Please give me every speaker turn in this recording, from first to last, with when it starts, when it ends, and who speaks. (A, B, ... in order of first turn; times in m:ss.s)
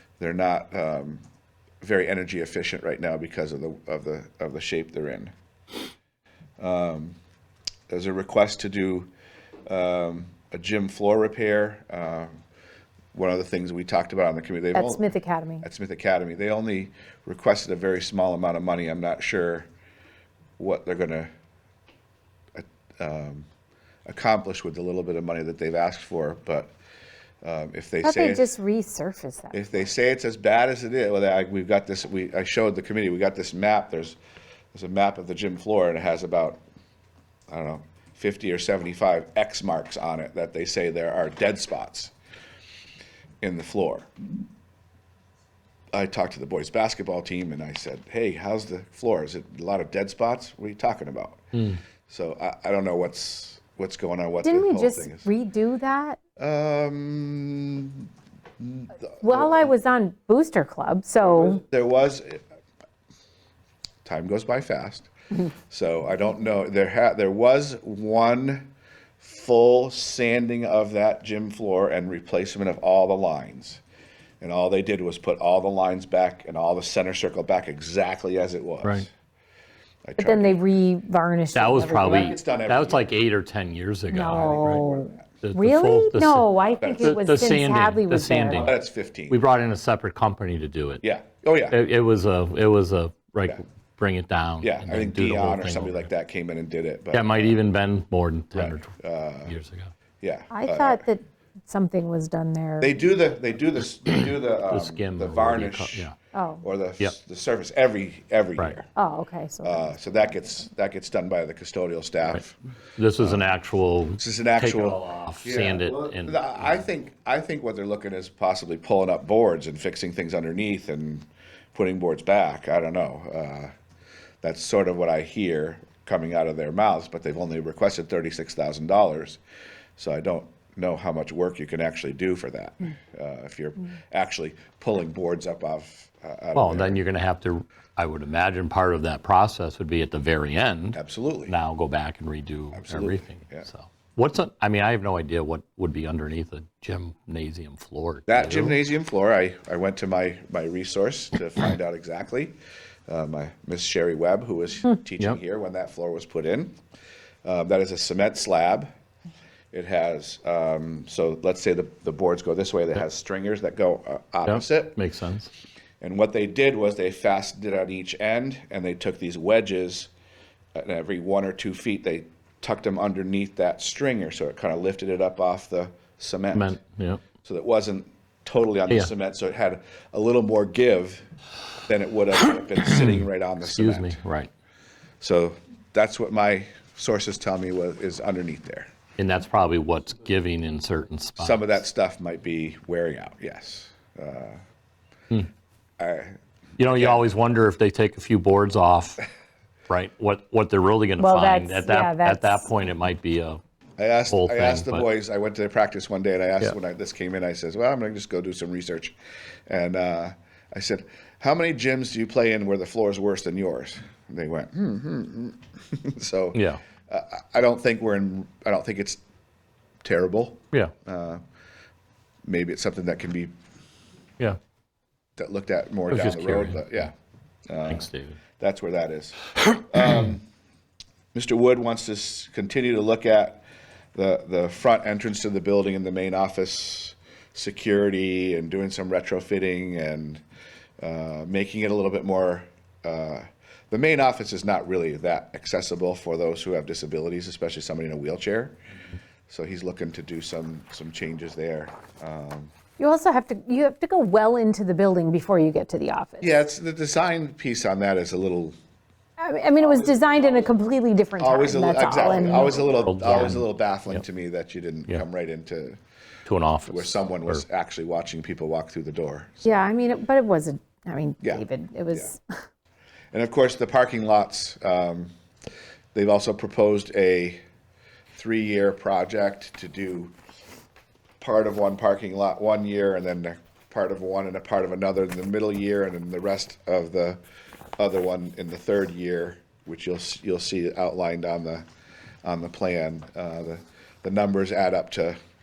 0:00.2-0:01.2 A
0:01.8-0:05.3 A
0:06.6-0:07.2 A
0:07.9-0:09.1 A
0:09.6-0:12.3 A
0:13.1-0:15.1 A
0:14.7-0:15.6 B
0:15.6-0:19.7 A
0:20.6-0:21.3 A
0:22.5-0:23.5 A
0:24.0-0:26.7 A
0:27.4-0:28.5 A
0:28.0-0:29.6 B
0:29.5-0:34.2 A
0:34.7-0:36.6 A
0:37.5-0:42.1 A
0:43.4-0:44.1 A
0:45.9-0:55.3 A
0:51.5-0:51.8 C
0:54.4-0:56.2 B
0:56.4-0:58.1 A
0:58.6-0:59.7 A
0:59.2-1:01.6 B
1:01.2-1:02.4 A
1:04.0-1:13.8 A
1:14.4-1:19.1 A
1:20.0-1:20.6 A
1:20.2-1:22.4 B
1:21.5-1:24.9 C
1:21.9-1:23.1 A
1:24.1-1:28.7 B
1:24.4-1:25.3 A
1:25.4-1:28.7 C
1:26.8-1:27.2 A
1:28.6-1:29.4 A
1:29.3-1:31.0 C
1:31.0-1:31.8 A
1:31.7-1:36.1 C
1:34.6-1:37.6 A
1:37.1-1:38.9 C
1:38.5-1:39.5 A
1:39.4-1:39.9 C
1:40.2-1:41.0 A
1:40.5-1:43.0 B
1:42.8-1:46.1 A
1:44.7-1:46.1 C
1:46.3-1:46.6 B
1:46.6-1:48.9 A
1:48.9-1:49.9 B
1:49.6-1:52.6 A
1:53.0-1:56.8 C
1:54.2-2:03.7 A
2:04.4-2:09.4 A
2:10.0-2:17.0 A
2:16.5-2:28.8 C
2:20.9-2:21.5 A
2:22.7-2:23.7 A
2:28.3-2:32.6 A
2:33.1-2:36.8 A
2:37.4-2:38.9 A
2:39.7-2:45.0 A
2:44.4-2:45.5 C
2:46.0-2:50.1 A
2:50.7-2:56.8 A
2:56.5-2:57.2 C
2:57.4-3:01.2 A
3:01.8-3:04.2 A
3:02.9-3:04.5 C
3:05.2-3:08.9 A
3:09.2-3:11.6 C
3:11.4-3:14.6 A
3:16.0-3:17.2 A
3:16.8-3:19.2 C
3:19.9-3:23.6 C
3:21.2-3:22.7 B
3:24.0-3:29.1 A
3:24.3-3:25.0 C
3:29.7-3:39.2 A
3:36.5-3:36.8 C
3:40.0-3:41.4 A
3:42.4-3:43.5 A
3:45.4-3:47.1 A
3:46.1-3:46.9 C
3:47.7-3:50.4 A
3:47.8-3:48.4 C
3:51.3-3:53.6 A
3:54.1-4:00.4 A
4:01.0-4:08.8 A
4:09.5-4:12.7 A
4:13.0-4:16.6 B
4:16.4-4:18.7 A
4:19.4-4:23.5 B
4:19.8-4:20.7 A
4:21.4-4:26.0 A
4:22.9-4:24.2 C
4:26.4-4:27.6 C
4:26.9-4:29.8 A
4:29.6-4:32.4 B
4:31.4-4:32.3 A
4:33.3-4:35.3 A
4:36.1-4:37.6 A
4:38.4-4:40.3 A
4:41.4-4:47.4 A
4:48.0-4:51.8 A
4:52.4-4:55.4 A